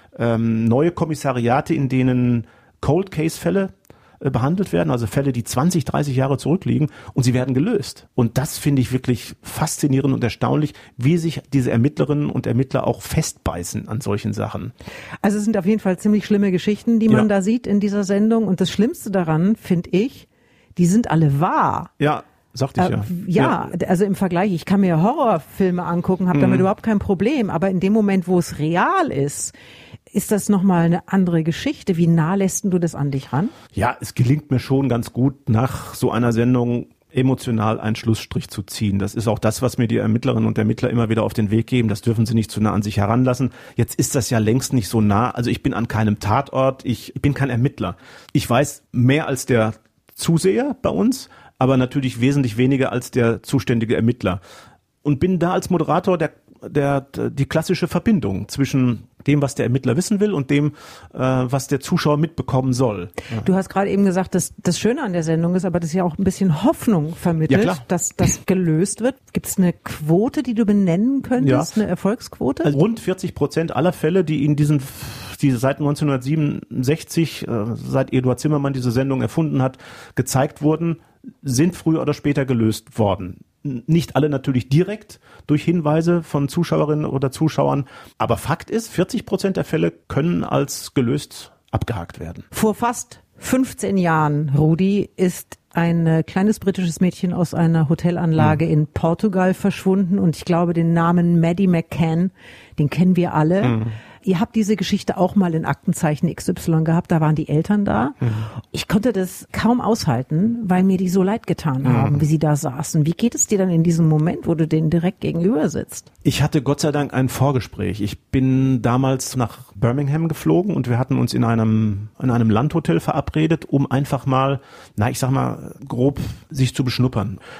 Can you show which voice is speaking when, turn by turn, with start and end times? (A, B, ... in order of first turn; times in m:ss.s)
0:00.2-0:14.7 A
0:15.2-0:21.9 B
0:22.0-0:23.7 A
0:22.8-0:29.5 B
0:26.3-0:26.7 A
0:30.1-0:33.5 B
0:33.7-0:54.4 A
0:55.0-1:03.5 A
1:03.4-1:12.8 B
1:07.5-1:07.8 A
1:11.4-1:11.7 A
1:12.6-1:32.5 A
1:32.5-1:56.1 B
1:43.6-1:43.9 A
1:51.8-1:52.2 A
1:56.2-2:07.4 A